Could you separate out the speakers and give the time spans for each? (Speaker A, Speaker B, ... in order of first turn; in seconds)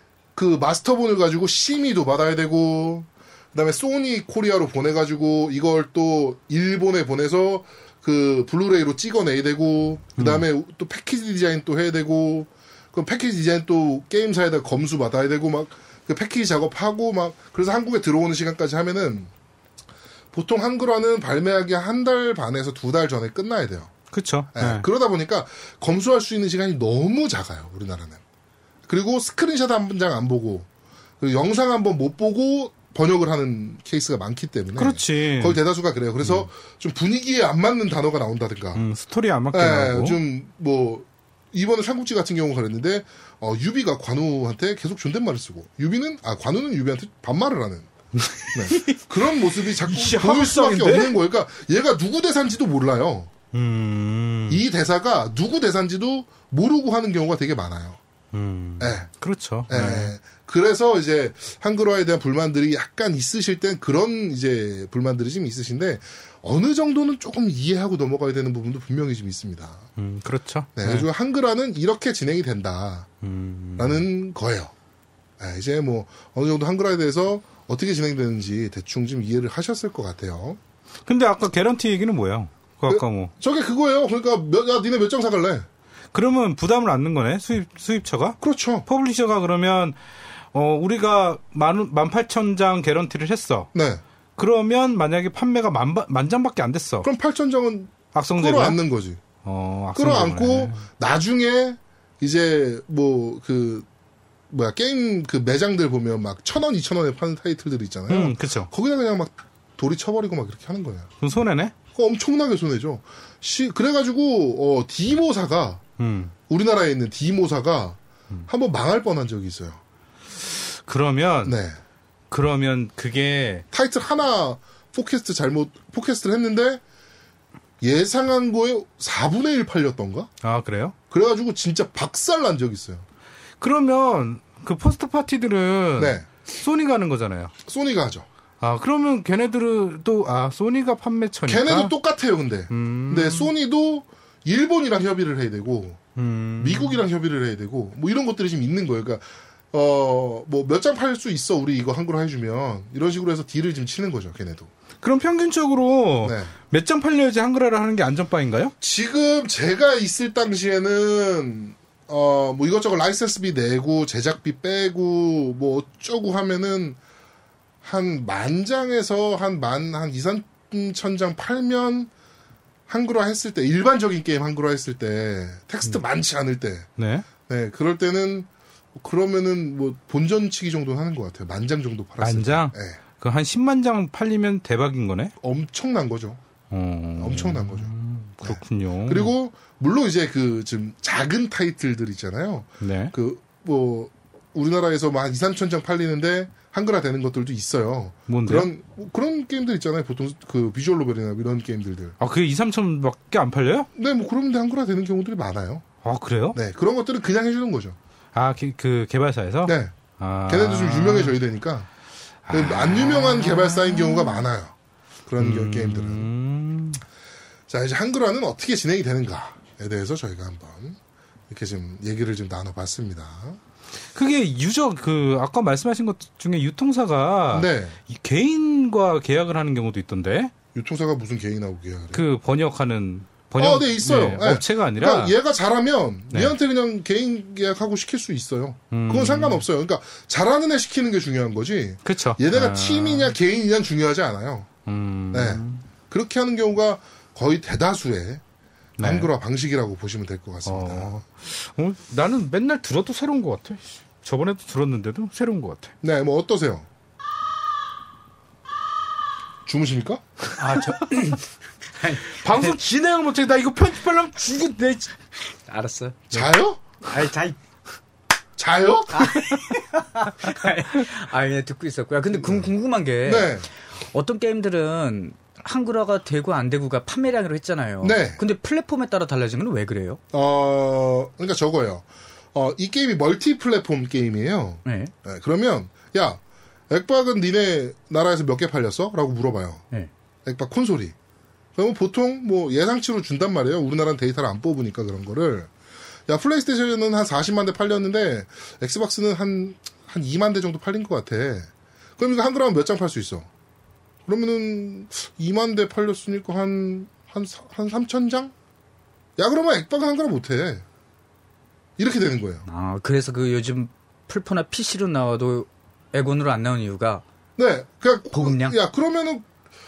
Speaker A: 0.3-19.3, 20.3-23.9, 24.5-28.2, 28.9-30.7, 31.2-38.8, 39.5-47.9, 48.5-53.3, 54.5-58.0, 58.8-59.1, 59.7-69.8, 70.8-73.1, 73.8-74.7, 75.4-80.6, 82.9-85.7, 88.4-88.8, 93.7-94.0, 97.0-99.2, 99.9-103.8, 104.5-111.1, 111.9-115.8, 116.5-119.8, 121.4-121.8, 123.7-126.8, 127.8-130.3, 131.1-133.0, 136.0-136.3, 137.7-138.2, 141.4-146.0, 146.6-154.7, 156.2-156.5, 158.8-167.0, 167.8-172.1, 172.9-176.9, 177.5-183.0, 185.4-186.4, 187.2-202.1, 203.9-205.8, 206.5-208.0, 209.7-209.9, 210.5-211.9, 212.5-214.7, 215.3-216.3, 217.7-221.0, 221.5-223.6, 227.5-228.0, 230.7-232.2, 233.6-244.7, 245.3-248.4, 249.0-251.2, 256.0-256.9, 259.6-260.2, 266.3-266.8, 268.6-269.4, 272.3-272.7, 273.2-273.7, 278.0-278.4, 280.3-289.8, 290.4-291.1, 291.8-295.7, 296.3-303.5, 304.2-308.5, 309.4-310.8, 312.0-312.6, 317.6-319.4
Speaker B: 10.2-10.4, 24.1-24.9, 34.8-35.6, 36.2-36.5, 38.7-40.2, 48.1-49.0, 49.8-51.2, 53.5-54.6, 58.3-60.1, 70.0-71.1, 73.2-74.0, 81.0-83.3, 86.1-90.0, 90.5-93.7, 94.4-97.1, 98.1-98.8, 99.4-100.8, 108.1-108.7, 111.2-111.7, 116.0-116.3, 120.8-121.6, 122.3-123.6, 130.4-130.9, 133.6-137.5, 138.6-141.9, 142.7-143.5, 146.2-147.0, 155.0-158.7, 177.0-177.2, 182.2-185.3, 186.7-189.3, 192.8-193.1, 198.3-198.7, 202.2-203.9, 206.0-206.6, 208.3-211.3, 212.5-214.4, 215.4-217.0, 224.1-230.5, 232.1-235.3, 238.9-239.6, 242.0-243.3, 244.8-245.8, 249.0-249.3, 250.6-255.9, 262.4-265.1
Speaker C: 260.6-261.4, 262.0-262.7, 265.7-266.2, 267.0-267.6, 269.1-273.6, 274.1-280.2, 284.8-285.1, 312.7-317.2, 318.3-318.8